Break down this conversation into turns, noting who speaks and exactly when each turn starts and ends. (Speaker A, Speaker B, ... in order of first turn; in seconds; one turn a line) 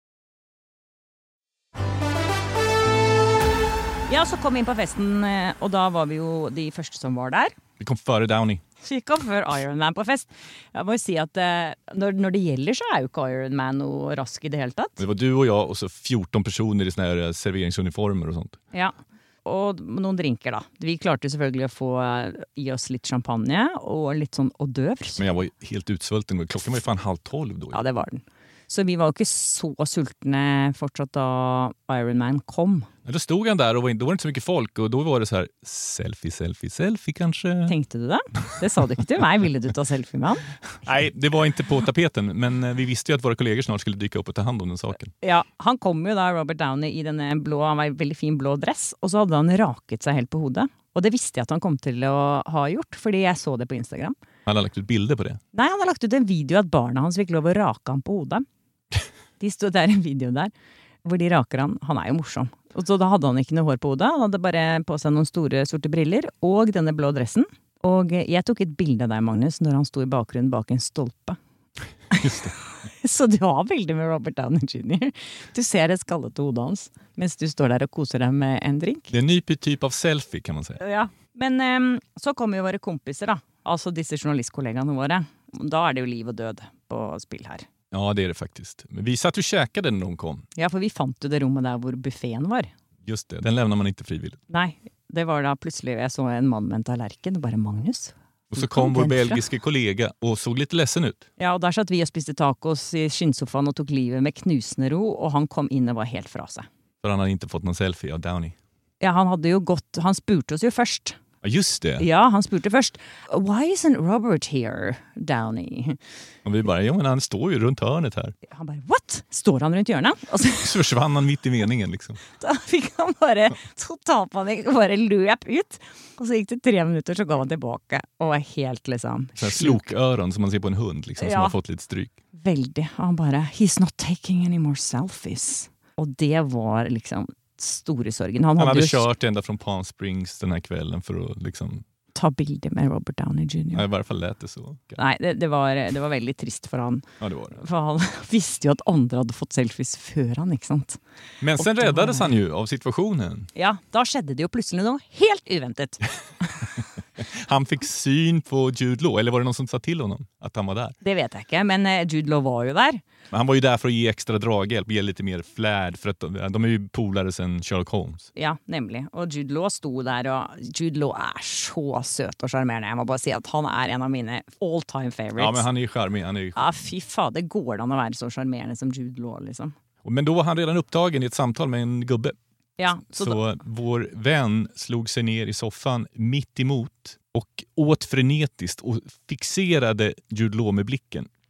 Speaker A: 4.1-7.5
Speaker B: 7.8-8.6
Speaker A: 8.8-15.0
Speaker B: 15.0-18.6
Speaker A: 18.7-25.2
Speaker B: 25.2-27.8
Speaker A: 27.7-32.9
Speaker B: 33.0-37.7
Speaker A: 37.7-40.5
Speaker B: 40.8-45.1
Speaker A: 45.2-54.1
Speaker B: 54.5-55.4
Speaker A: 55.5-58.4
Speaker A: 59.4-60.5
Speaker A: 61.0-71.4
Speaker A: 72.1-72.5
Speaker B: 72.1-72.5
Speaker A: 73.0-79.1
Speaker B: 79.1-80.8
Speaker A: 80.8-87.7
Speaker B: 87.9-90.5
Speaker A: 90.6-92.7
Speaker B: 93.0-94.4
Speaker A: 94.5-99.4
Speaker B: 98.5-101.2
Speaker A: 101.4-106.7
Speaker B: 107.0-108.5
Speaker A: 109.0-111.2
Speaker B: 111.4-112.0
Speaker A: 112.0-116.0
Speaker B: 116.4-118.3
Speaker A: 118.5-120.8
Speaker B: 120.6-122.2
Speaker A: 122.4-129.8
Speaker B: 129.4-132.1
Speaker A: 131.2-131.5
Speaker A: 132.4-139.1
Speaker B: 138.6-141.8
Speaker A: 142.1-143.8
Speaker B: 143.7-145.0
Speaker A: 145.0-147.1
Speaker B: 147.2-147.6
Speaker A: 147.6-151.0
Speaker B: 151.4-153.5
Speaker A: 151.6-152.3
Speaker A: 153.5-156.5
Speaker B: 157.2-160.9
Speaker A: 161.0-163.0
Speaker B: 163.3-168.3
Speaker A: 168.3-175.7
Speaker B: 175.4-176.6
Speaker A: 176.6-179.7
Speaker B: 180.0-182.3
Speaker A: 182.8-183.4
Speaker B: 183.1-191.3